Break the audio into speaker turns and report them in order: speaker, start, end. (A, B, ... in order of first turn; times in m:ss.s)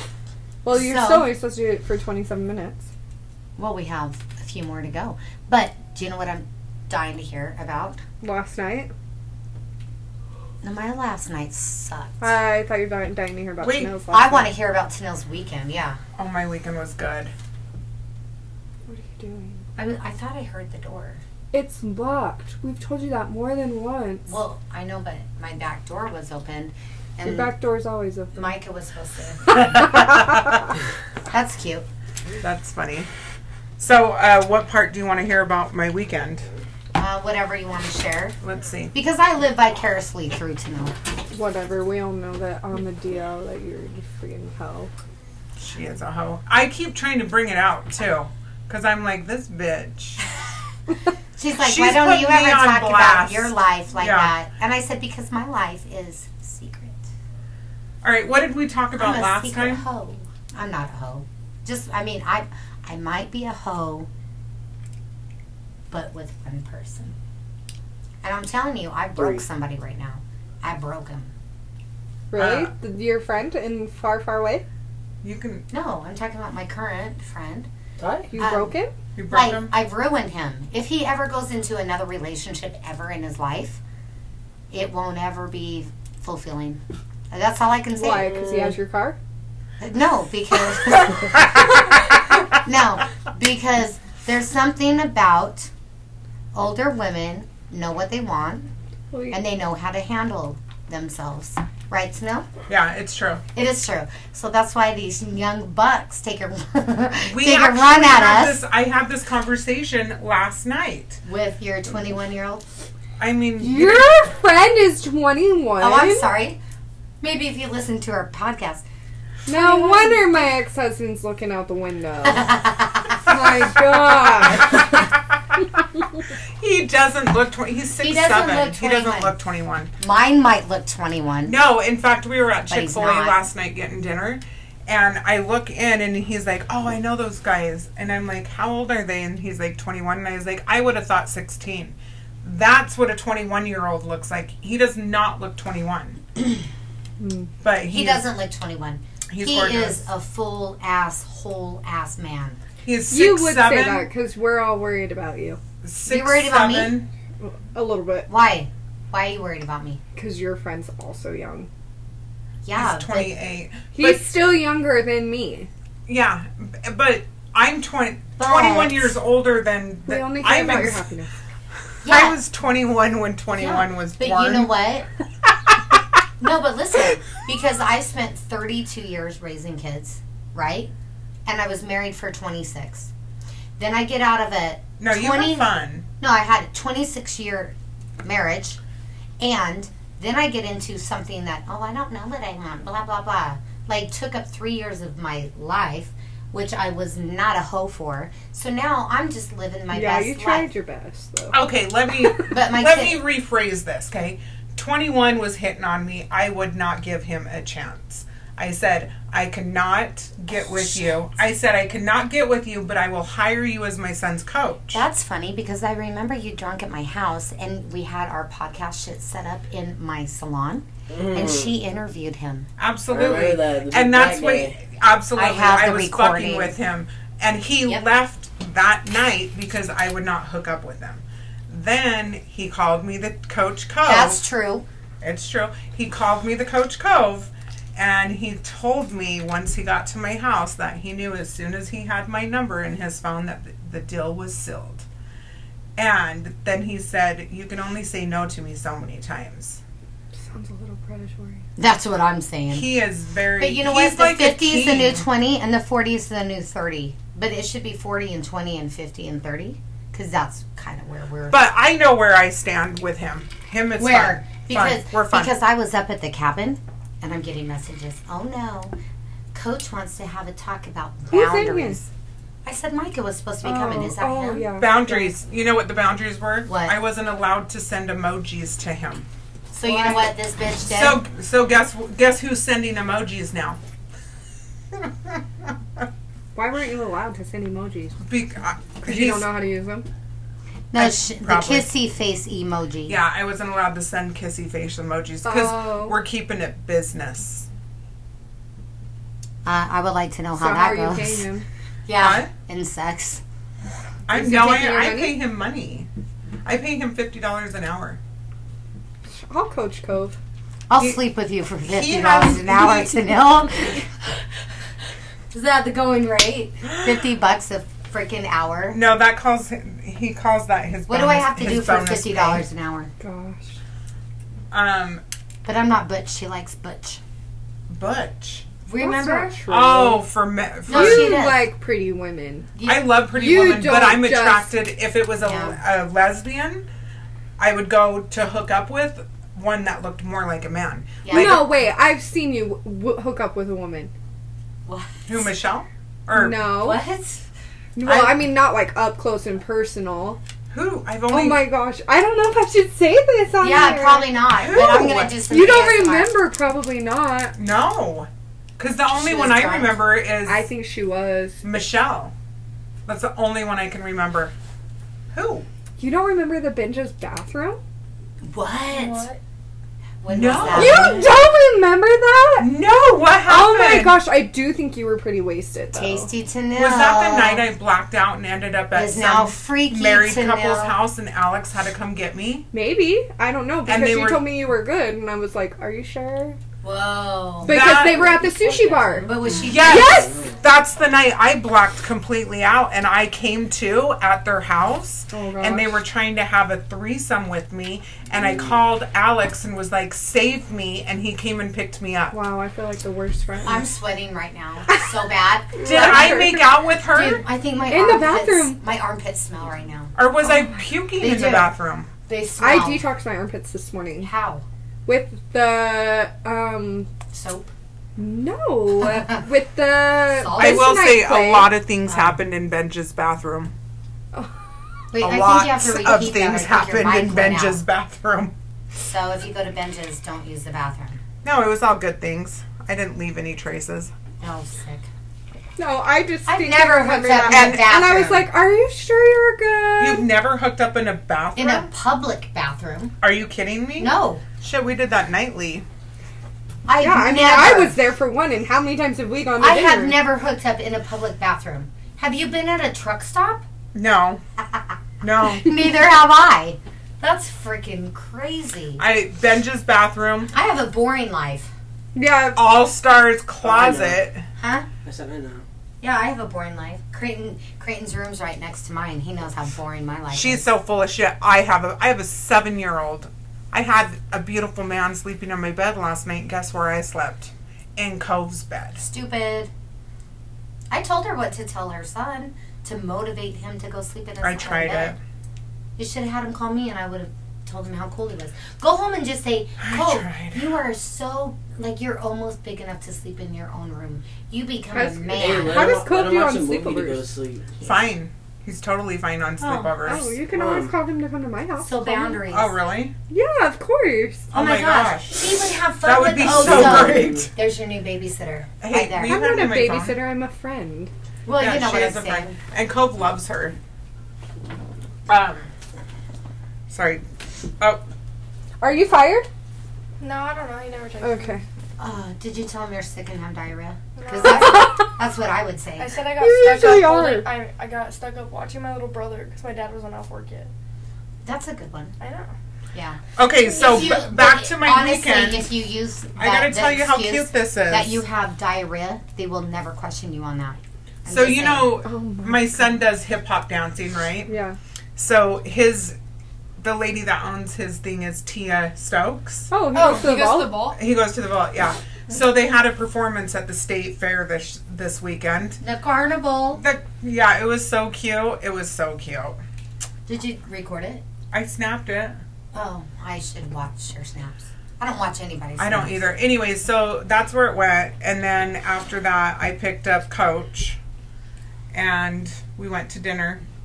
0:00.6-0:02.9 A
0:00.7-0:01.3 B
0:03.6-0:08.0 B
0:08.2-0:08.9 A
0:10.6-0:12.2 B
0:12.2-0:14.5 A
0:13.6-0:14.0 C
0:14.1-0:16.0 B
0:16.2-0:17.3 C
0:18.9-0:19.6 A
0:19.8-0:21.2 B
0:21.5-0:24.4 A
0:24.3-0:27.5 B
0:27.2-0:28.5 A
0:28.3-0:30.3 B
0:29.5-0:30.4 A
0:29.8-0:30.7 C
0:31.3-0:31.9 B
0:32.4-0:33.1 C
0:33.8-0:36.5 C
0:37.0-0:38.4 B
0:38.4-0:38.9 C
0:38.9-0:40.9 B
0:41.3-0:44.9 A
0:45.6-0:50.2 C
0:51.4-0:57.1 B
0:51.5-0:54.3 C
0:58.0-0:59.8 C
0:59.0-1:04.1 B
1:05.9-1:07.2 B
1:08.2-1:11.3 B
1:09.2-1:09.4 D
1:12.3-1:14.6 A
1:12.3-1:12.7 C
1:15.2-1:15.7 C
1:15.7-1:17.7 B
1:18.0-1:18.3 D
1:18.3-1:18.9 A
1:18.4-1:18.7 B
1:19.2-1:19.7 C
1:19.3-1:23.8 B
1:24.7-1:28.7 B
1:27.9-1:29.2 A
1:29.8-1:32.0 B
1:31.0-1:31.4 C
1:32.6-1:35.7 B
1:36.5-1:38.7 B
1:39.1-1:39.4 A
1:39.3-1:42.5 B
1:42.7-1:43.4 C
1:43.5-1:48.6 B
1:47.3-1:51.2 C
1:51.2-1:52.6 B
1:53.2-1:54.1 C
1:53.6-1:56.3 A
1:55.8-1:56.6 B
1:57.2-1:58.8 B
1:59.5-2:00.2 B
1:59.5-2:02.6 A
2:02.3-2:03.2 B
2:03.2-2:04.9 A
2:04.6-2:05.0 C
2:06.6-2:09.9 C
2:08.0-2:09.4 B
2:10.0-2:11.6 B
2:11.5-2:26.2 C
2:12.7-2:13.4 B
2:27.2-2:27.5 A
2:27.6-2:28.3 C
2:27.8-2:32.6 B
2:29.3-2:30.1 C
2:32.8-2:34.1 C
2:33.1-2:35.6 A
2:35.8-2:37.1 C
2:36.1-2:36.9 B
2:37.4-2:38.3 A
2:38.3-2:40.0 B
2:40.2-2:41.7 A
2:42.6-2:43.4 B
2:42.7-2:44.2 C
2:44.0-2:45.7 A
2:46.1-2:51.0 C
2:48.4-2:49.2 B
2:50.1-2:51.3 A
2:52.0-2:52.4 B
2:52.0-2:54.7 C
2:53.5-2:55.1 B
2:56.4-3:00.9 B
3:01.5-3:03.1 B
3:03.8-3:05.7 B
3:05.0-3:06.1 C
3:06.2-3:08.8 B
3:09.4-3:20.7 B
3:19.9-3:22.4 A
3:21.5-3:35.0 C
3:22.5-3:23.2 B
3:34.9-3:42.7 B
3:41.1-3:41.7 D
3:42.8-3:54.4 C
3:43.1-3:44.8 D
3:45.4-3:46.8 B
3:54.0-3:54.8 B
3:55.2-4:05.0 C
4:06.0-4:09.8 C
4:10.4-4:11.6 A
4:11.8-4:12.9 B
4:12.7-4:15.3 C
4:13.6-4:21.6 B
4:21.5-4:25.5 C
4:24.0-4:28.9 B
4:29.5-4:32.1 B
4:31.3-4:32.0 A
4:32.6-4:34.7 B
4:33.6-4:35.3 A
4:34.7-4:39.2 C
4:36.7-4:37.0 B
4:39.7-4:41.2 B
4:39.9-4:40.2 A
4:40.8-4:43.8 C
4:44.9-4:45.4 C
4:46.6-4:48.2 A
4:48.3-4:49.5 C
4:49.0-4:50.1 A
4:50.9-4:53.2 B
4:51.0-4:51.9 C
4:53.1-4:57.7 C
4:55.4-4:56.2 A
4:59.6-5:01.4 B
5:00.6-5:01.7 A
5:02.1-5:03.4 B
5:02.2-5:02.5 C
5:04.3-5:06.1 C
5:04.3-5:05.4 A
5:06.6-5:08.2 C
5:09.3-5:10.4 A
5:10.9-5:14.1 B
5:11.8-5:13.2 C
5:15.5-5:19.0 B
5:18.9-5:22.7 C
5:21.1-5:23.1 B
5:23.2-5:23.7 A
5:24.7-5:25.2 C
5:25.6-5:27.2 B
5:27.9-5:28.7 C
5:28.9-5:29.6 B
5:29.0-5:30.2 A
5:29.6-5:31.4 C
5:30.9-5:31.6 B
5:30.9-5:32.7 A
5:32.8-5:33.1 B
5:32.9-5:36.8 C
5:33.3-5:34.7 A
5:35.4-5:35.8 B
5:37.6-5:41.7 C
5:41.2-5:41.6 B
5:41.3-5:44.1 A
5:44.9-5:45.5 B
5:45.3-5:46.7 C
5:46.3-5:47.0 A
5:46.8-5:47.4 B
5:48.0-5:50.4 A
5:48.0-5:48.4 C
5:50.7-5:51.7 C
5:51.3-5:54.4 A
5:53.6-5:56.3 B
5:54.5-5:55.4 C
5:55.5-5:57.6 A
5:57.6-6:00.6 C
5:59.1-6:00.0 B
6:00.4-6:01.7 A
6:01.6-6:02.3 C
6:03.1-6:04.5 C
6:05.3-6:05.7 C
6:06.0-6:07.8 A
6:08.4-6:09.3 B
6:08.9-6:09.4 E
6:10.2-6:11.3 B
6:10.3-6:11.4 C
6:10.7-6:12.8 A
6:12.6-6:14.2 C
6:13.5-6:16.3 A
6:15.9-6:17.7 B
6:16.7-6:22.7 C
6:18.9-6:21.0 B
6:22.7-6:26.6 A
6:23.9-6:24.4 C
6:26.8-6:27.8 B
6:27.6-6:30.4 A
6:27.6-6:28.4 C
6:28.1-6:29.8 D
6:29.2-6:30.2 B
6:29.6-6:42.4 C
6:35.3-6:36.0 A
6:42.3-6:43.9 A
6:43.6-6:46.6 B
6:45.7-6:46.8 A
6:45.8-6:47.4 C
6:47.1-6:50.2 B
6:47.9-6:48.8 A
6:50.2-6:52.1 C
6:51.2-6:51.7 B
6:52.3-6:53.0 B
6:52.6-6:54.3 A
6:54.2-6:54.6 B
6:55.1-6:57.1 A
6:57.3-6:57.7 B
6:58.2-7:01.8 A
7:00.4-7:00.9 B
7:00.6-7:03.7 C
7:02.1-7:02.4 B
7:05.1-7:07.8 B
7:05.2-7:08.5 C
7:09.1-7:11.2 B
7:11.4-7:14.1 C
7:14.4-7:15.1 B
7:15.8-7:20.3 A
7:16.5-7:18.4 B
7:17.5-7:18.4 C
7:20.0-7:21.9 C
7:21.6-7:23.2 B
7:23.2-7:25.8 C
7:24.0-7:24.4 B
7:26.9-7:28.0 B
7:27.0-7:30.2 A
7:29.6-7:33.6 B
7:33.9-7:34.4 C
7:34.7-7:35.0 B
7:35.2-7:35.8 C
7:35.5-7:39.0 B
7:39.0-7:40.5 C
7:40.5-7:41.7 B
7:42.2-7:42.7 A
7:42.6-7:44.4 C
7:43.6-7:44.2 D
7:44.6-7:44.9 B
7:45.0-7:45.6 D
7:46.0-7:50.6 B
7:50.3-7:59.0 C
7:59.0-7:59.7 B
8:00.9-8:05.2 B
8:04.4-8:05.2 C
8:06.0-8:16.0 B
8:09.8-8:10.7 C
8:14.9-8:17.3 A
8:15.3-8:17.7 D
8:17.8-8:20.4 C
8:20.0-8:22.4 A
8:20.4-8:20.9 D
8:21.8-8:22.8 B
8:22.5-8:23.2 C
8:23.3-8:24.5 A
8:24.5-8:27.5 C
8:24.5-8:29.4 B
8:26.5-8:27.5 D
8:28.8-8:30.2 C
8:29.2-8:31.1 A
8:31.5-8:32.6 B
8:31.6-8:33.8 C
8:35.3-8:35.7 C
8:36.9-8:37.2 C
8:38.8-8:39.5 A
8:40.2-8:41.6 E
8:41.2-8:41.6 A
8:42.0-8:46.2 B
8:44.2-8:44.9 E
8:44.4-8:45.1 A
8:46.0-8:50.7 E
8:46.4-8:47.5 A
8:51.4-8:52.2 B
8:52.2-8:52.5 E
8:52.9-9:01.9 B
8:53.4-8:55.7 C
8:56.4-8:58.2 C
9:01.3-9:04.5 C
9:02.0-9:03.0 A
9:04.5-9:04.8 A
9:05.2-9:06.2 C
9:06.8-9:10.3 C
9:09.7-9:10.9 A
9:09.9-9:11.0 E
9:10.9-9:15.8 C
9:15.8-9:16.8 B
9:16.8-9:19.6 C
9:20.3-9:21.2 B
9:21.5-9:22.4 C
9:22.7-9:26.3 B
9:25.8-9:31.0 C
9:31.9-9:33.6 C